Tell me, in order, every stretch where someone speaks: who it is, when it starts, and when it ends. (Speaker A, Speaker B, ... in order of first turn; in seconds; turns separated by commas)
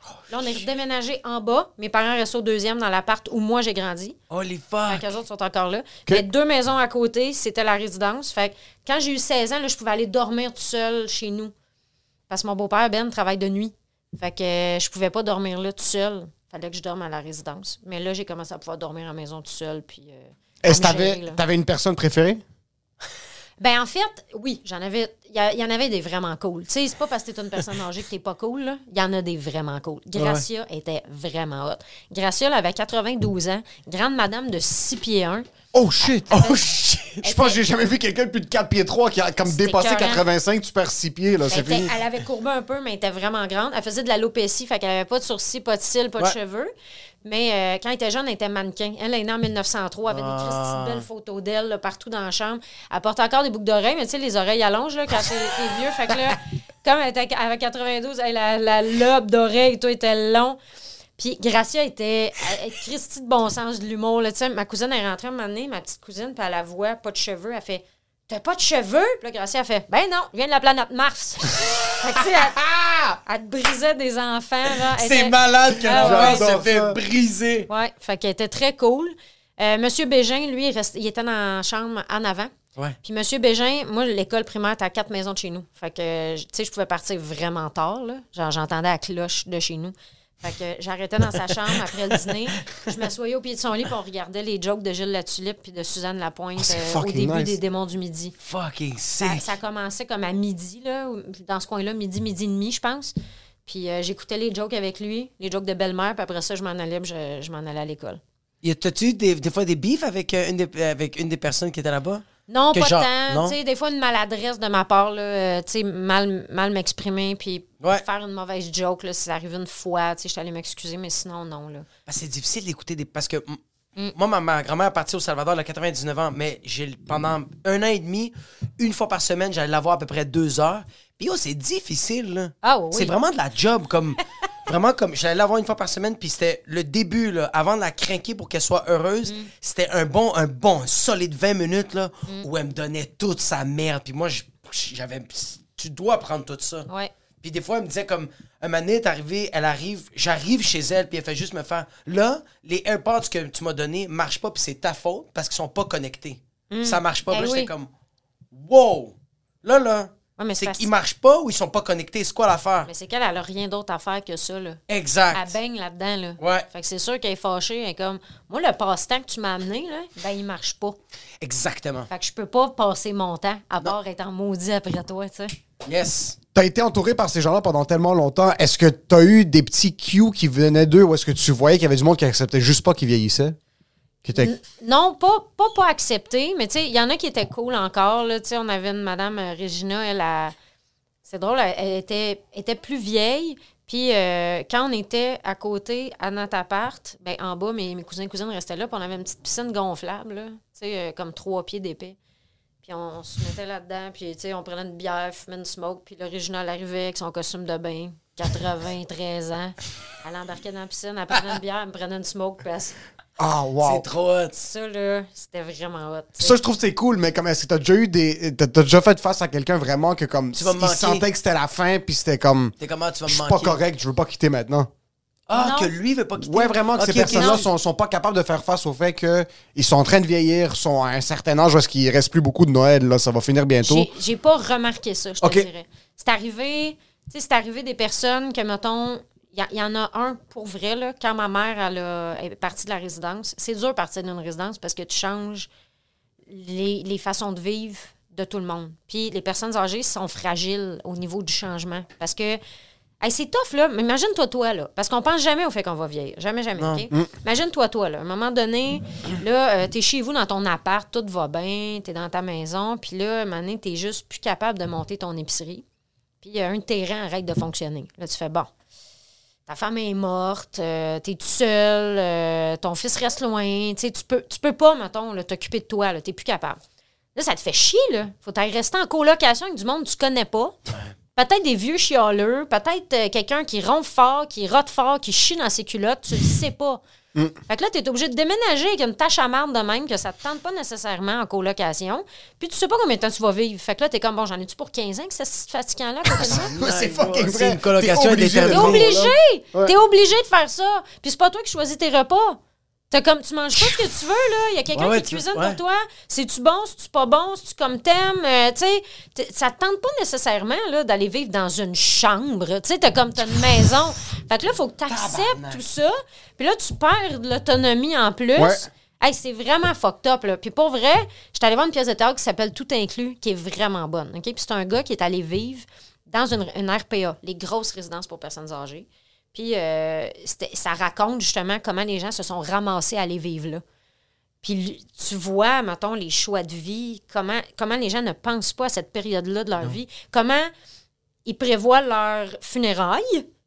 Speaker A: 0.3-4.2, Speaker B: 4.3-5.0, Speaker A: 4.9-11.5, Speaker A: 12.3-21.4, Speaker C: 20.6-22.4, Speaker A: 23.6-35.5, Speaker B: 30.1-30.4, Speaker C: 35.7-36.6, Speaker A: 36.2-36.6, Speaker B: 36.3-37.2, Speaker C: 37.2-42.0, Speaker A: 37.2-37.6, Speaker A: 39.4-40.2, Speaker A: 41.5-46.7, Speaker A: 47.2-60.6, Speaker B: 50.1-51.0, Speaker A: 61.2-76.4, Speaker B: 75.0-77.7, Speaker C: 75.8-77.0, Speaker A: 77.7-82.5, Speaker A: 83.0-98.3, Speaker C: 96.6-97.6, Speaker B: 98.4-99.5, Speaker A: 99.2-103.1, Speaker A: 103.7-108.2, Speaker B: 108.6-113.6, Speaker A: 112.5-121.8, Speaker B: 122.0-123.6, Speaker B: 124.1-146.9, Speaker A: 132.6-133.1, Speaker B: 147.4-157.9, Speaker A: 156.7-157.7, Speaker B: 158.5-162.9, Speaker A: 160.4-160.9, Speaker A: 162.8-164.8, Speaker B: 164.9-165.5, Speaker A: 165.3-171.0, Speaker B: 166.4-166.7, Speaker B: 171.4-172.1, Speaker A: 172.1-175.5, Speaker B: 175.8-176.3, Speaker C: 176.5-183.6, Speaker C: 184.2-184.5, Speaker A: 184.3-190.5, Speaker A: 191.2-202.2, Speaker A: 202.8-212.9, Speaker C: 213.4-214.1, Speaker B: 213.8-214.6, Speaker A: 214.5-216.6, Speaker C: 216.4-222.7, Speaker B: 220.5-221.2, Speaker B: 222.8-223.8, Speaker C: 223.3-224.9, Speaker B: 225.5-227.7, Speaker A: 225.5-225.9, Speaker C: 226.4-234.1, Speaker A: 227.2-227.6, Speaker A: 233.8-245.7, Speaker C: 235.4-235.7, Speaker A: 246.5-252.6, Speaker A: 253.2-265.8, Speaker B: 256.8-257.0, Speaker A: 266.4-268.7, Speaker A: 269.7-276.8, Speaker A: 277.3-280.8, Speaker A: 281.4-287.0, Speaker A: 287.7-296.7, Speaker C: 296.3-299.9, Speaker B: 296.4-299.1, Speaker A: 298.7-302.6, Speaker A: 303.1-333.8, Speaker B: 304.9-305.8, Speaker B: 315.1-315.8, Speaker C: 318.6-318.9, Speaker A: 334.6-340.7, Speaker A: 341.4-343.4